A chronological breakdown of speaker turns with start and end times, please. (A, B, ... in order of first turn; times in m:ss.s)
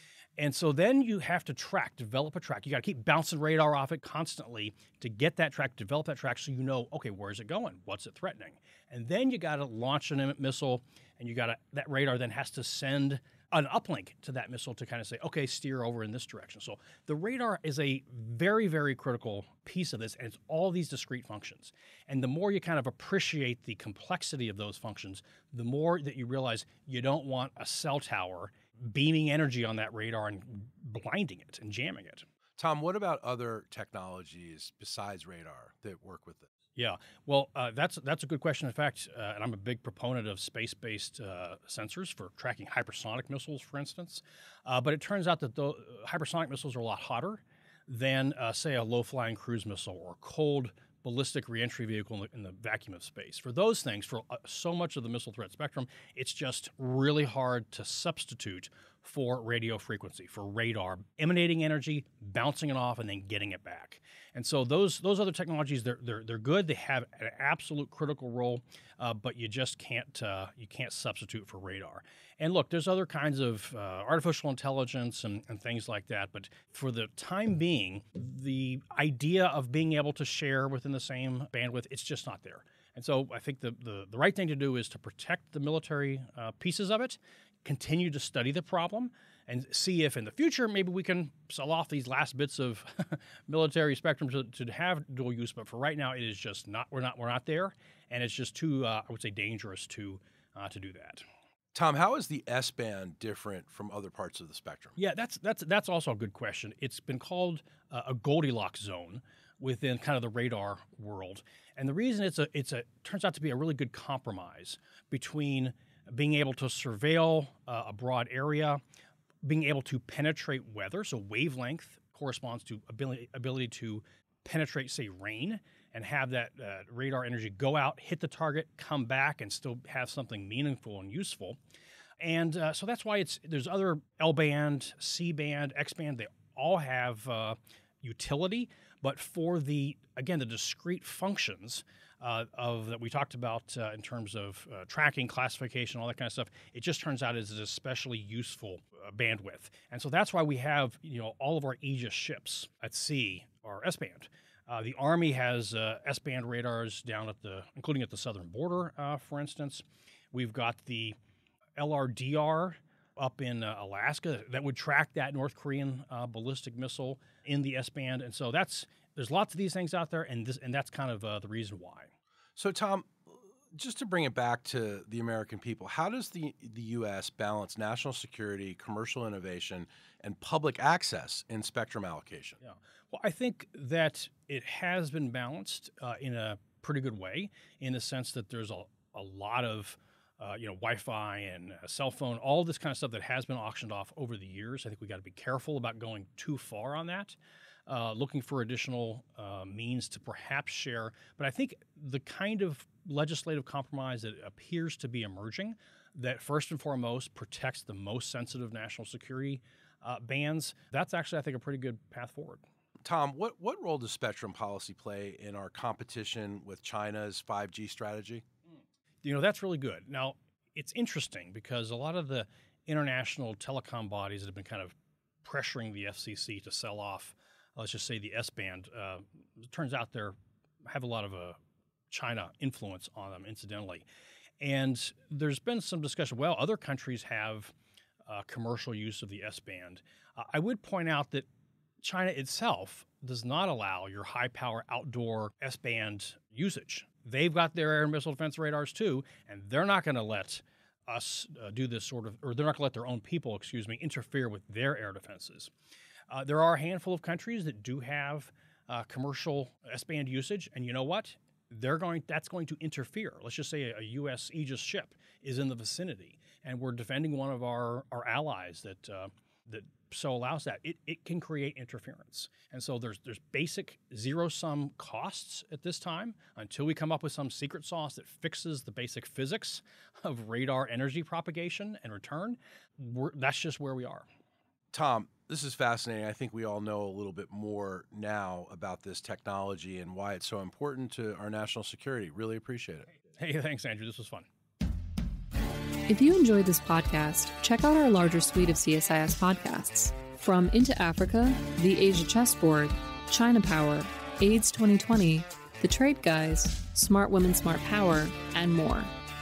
0:00.4-0:32.2 A
0:32.6-0:36.5 B
0:36.8-1:41.2 A
1:41.7-1:44.9 B
1:45.0-1:58.8 A
1:59.4-2:11.6 A
2:12.2-2:41.2 A
2:41.8-2:52.1 A
2:52.6-3:02.6 B
3:02.6-3:32.6 A
3:33.0-3:38.4 B
3:39.2-3:50.3 A
3:50.9-3:51.6 A
3:52.1-3:54.0 A
3:54.6-3:57.7 A
3:58.3-4:01.5 A
4:02.0-4:15.7 A
4:16.3-4:44.2 A
4:44.9-4:53.1 B
4:53.3-4:54.5 A
4:56.1-5:09.1 C